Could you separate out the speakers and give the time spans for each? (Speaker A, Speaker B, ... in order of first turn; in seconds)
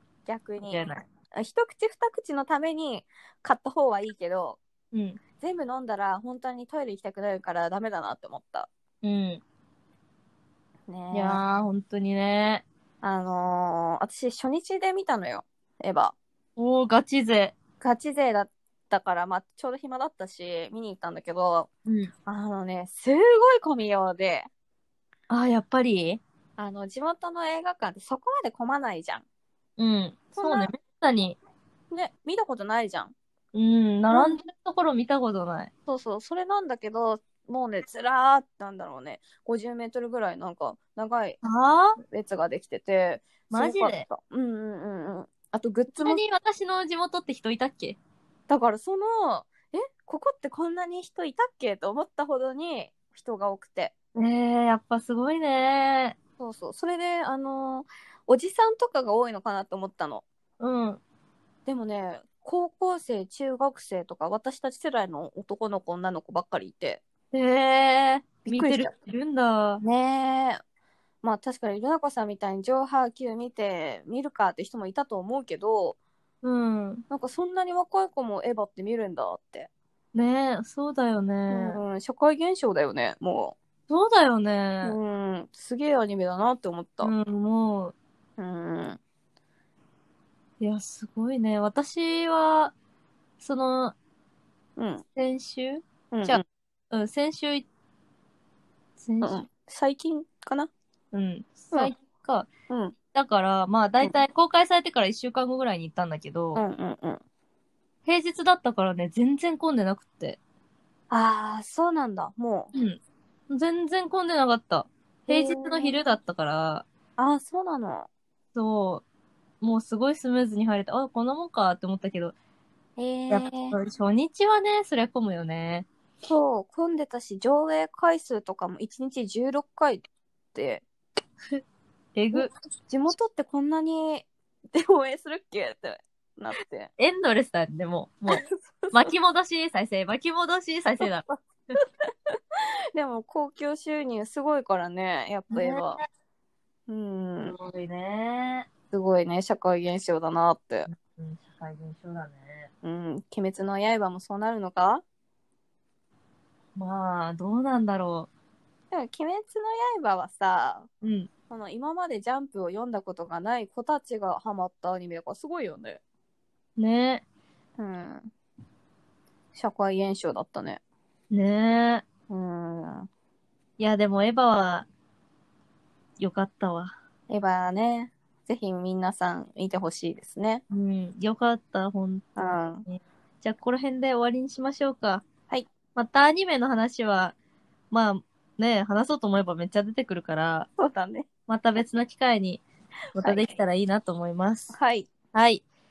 Speaker A: 0.3-4.6, 5.4-8.7, 10.9-11.4, 13.0-16.1, 17.8-21.7, 22.3-24.5, 26.6-29.2, 30.4-30.7, 31.9-33.1, 34.1-34.4, 35.9-41.4, 42.0-46.2, 48.5-53.9, 56.4-60.2, 61.7-67.0, 68.5-68.9, 69.8-70.6, 71.2-76.0, 77.1-79.7, 81.5-83.6, 84.8-87.1, 88.4-89.0, 94.8-95.0, 96.1-96.4, 99.2-100.7, 102.7-103.0, 106.6-107.2, 111.1-112.7, 115.3-115.9, 117.2-118.1, 123.0-123.8, 126.2-130.8, 132.3-136.9, 138.3-139.1, 142.9-146.0, 146.9-147.6, 148.9-150.9, 152.8-155.0, 158.9-160.9, 161.5-166.0, 167.8-168.3, 169.5-170.8, 172.3-173.1, 177.3-180.6, 182.4-182.8, 190.8-191.3, 193.2-193.6, 194.7-195.1
Speaker B: 0.7-1.0, 4.9-5.2, 9.0-9.4, 11.1-12.7, 16.6-17.6, 21.9-22.1, 25.3-26.2, 29.8-31.4, 33.5-35.7, 41.4-42.0, 43.5-44.1, 45.9-48.0, 54.2-56.1, 60.6-61.0, 67.3-69.8, 76.4-77.0, 80.1-81.8, 83.9-85.0, 87.0-87.9, 90.6-92.7, 93.4-94.0, 95.2-97.7, 99.0-99.4, 101.1-102.5, 103.1-106.6, 108.1-110.4, 112.7-116.9, 118.5-119.0, 119.6-122.3, 123.3-125.9, 132.2-132.5, 137.0-141.3, 145.5-146.1, 147.4-148.7, 150.9-152.7, 156.8-158.3, 161.0-161.3, 166.8-167.2, 171.3-172.1, 173.8-174.9, 176.2-176.9, 180.7-185.2, 185.9-187.3, 187.9-190.7, 191.5-192.6, 193.2-194.8, 195.3-195.6